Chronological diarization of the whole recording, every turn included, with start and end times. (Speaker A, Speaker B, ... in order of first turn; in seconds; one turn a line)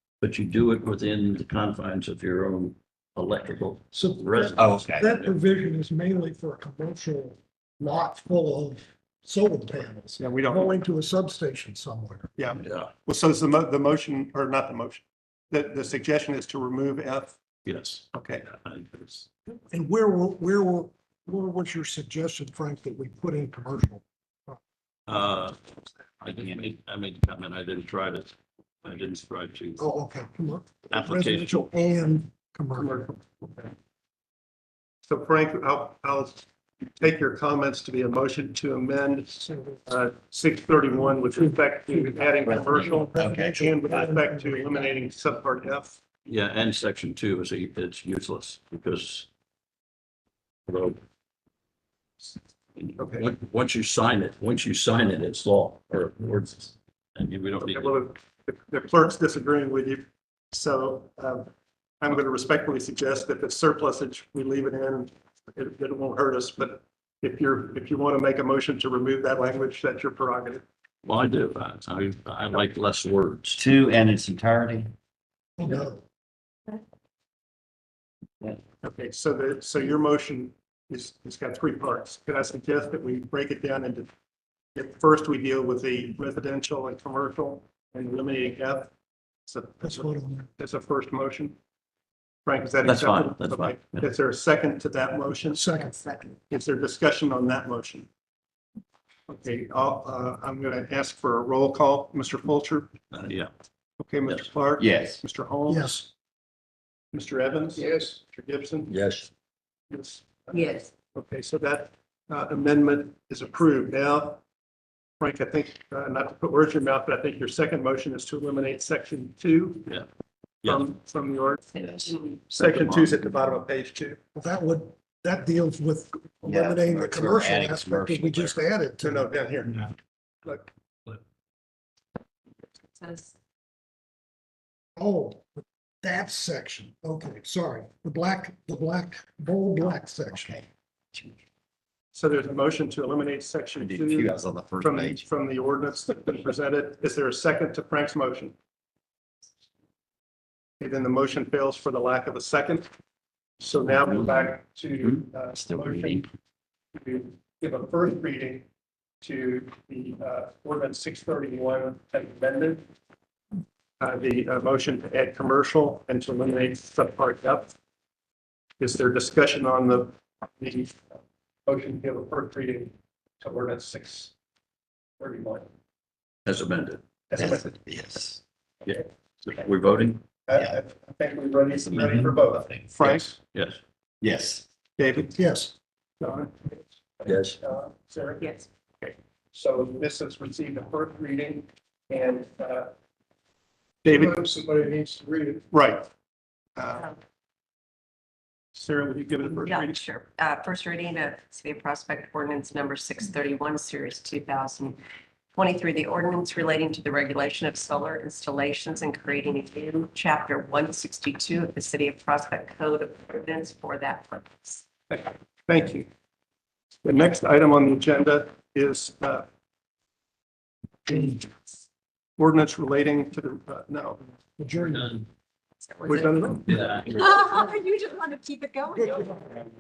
Speaker A: 0.2-5.3
Speaker B: 3.9-12.3
Speaker C: 4.6-5.1
Speaker D: 10.2-10.7
Speaker D: 12.4-17.4
Speaker A: 12.6-12.9
Speaker A: 17.6-19.3
Speaker D: 18.1-18.4
Speaker B: 19.7-24.6
Speaker A: 25.1-25.6
Speaker A: 26.2-29.9
Speaker B: 29.8-32.9
Speaker A: 30.9-31.7
Speaker D: 32.8-33.7
Speaker D: 35.1-36.5
Speaker D: 37.0-46.0
Speaker B: 39.4-39.8
Speaker C: 42.4-43.7
Speaker B: 42.9-45.0
Speaker A: 46.3-49.3
Speaker A: 50.7-51.0
Speaker A: 52.8-58.0
Speaker D: 53.0-53.3
Speaker D: 57.6-61.5
Speaker D: 62.0-70.6
Speaker A: 71.0-73.6
Speaker C: 73.6-74.9
Speaker B: 75.6-76.0
Speaker D: 78.8-84.1
Speaker D: 84.8-88.9
Speaker D: 89.5-91.6
Speaker B: 89.8-90.5
Speaker D: 92.5-95.7
Speaker A: 92.8-94.0
Speaker B: 95.5-96.0
Speaker E: 95.8-96.3
Speaker D: 96.5-98.1
Speaker D: 99.3-102.9
Speaker A: 103.1-103.5
Speaker D: 104.0-106.1
Speaker C: 104.8-105.2
Speaker B: 105.7-106.1
Speaker D: 107.1-108.9
Speaker A: 108.9-109.3
Speaker D: 109.9-114.4
Speaker E: 110.5-110.9
Speaker D: 115.2-119.9
Speaker D: 120.6-121.7
Speaker E: 121.7-122.6
Speaker C: 121.8-122.2
Speaker D: 122.5-124.2
Speaker A: 122.6-123.3
Speaker B: 124.3-129.3
Speaker C: 126.4-128.6
Speaker D: 129.0-130.7
Speaker E: 132.9-133.3
Speaker B: 135.0-140.6
Speaker C: 140.3-140.6
Speaker D: 142.1-148.6
Speaker C: 143.8-145.2
Speaker D: 150.8-152.9
Speaker D: 153.6-156.3
Speaker C: 155.6-156.2
Speaker D: 156.9-158.7
Speaker D: 159.2-162.9
Speaker D: 164.0-167.7
Speaker D: 168.8-171.1
Speaker D: 171.7-174.3
Speaker D: 175.2-175.7
Speaker A: 176.5-177.0
Speaker D: 177.3-177.8
Speaker C: 177.4-178.4
Speaker A: 178.9-180.2
Speaker D: 180.5-183.4
Speaker C: 181.9-182.4
Speaker A: 183.0-183.8
Speaker C: 184.2-184.6
Speaker D: 185.0-185.4
Speaker B: 185.4-185.7
Speaker D: 186.2-192.9
Speaker A: 187.3-187.6
Speaker E: 188.4-188.7
Speaker D: 194.0-194.4
Speaker B: 194.2-195.6
Speaker D: 195.7-196.1
Speaker D: 196.8-197.1
Speaker D: 198.8-200.0
Speaker E: 199.6-205.0
Speaker E: 205.5-214.8
Speaker D: 215.1-216.1
Speaker D: 217.0-219.4
Speaker B: 221.1-221.4
Speaker D: 222.4-224.2
Speaker B: 224.6-225.3
Speaker A: 224.8-225.2
Speaker E: 225.8-229.3
Speaker D: 226.1-226.8
Speaker A: 226.7-227.5
Speaker B: 229.0-229.3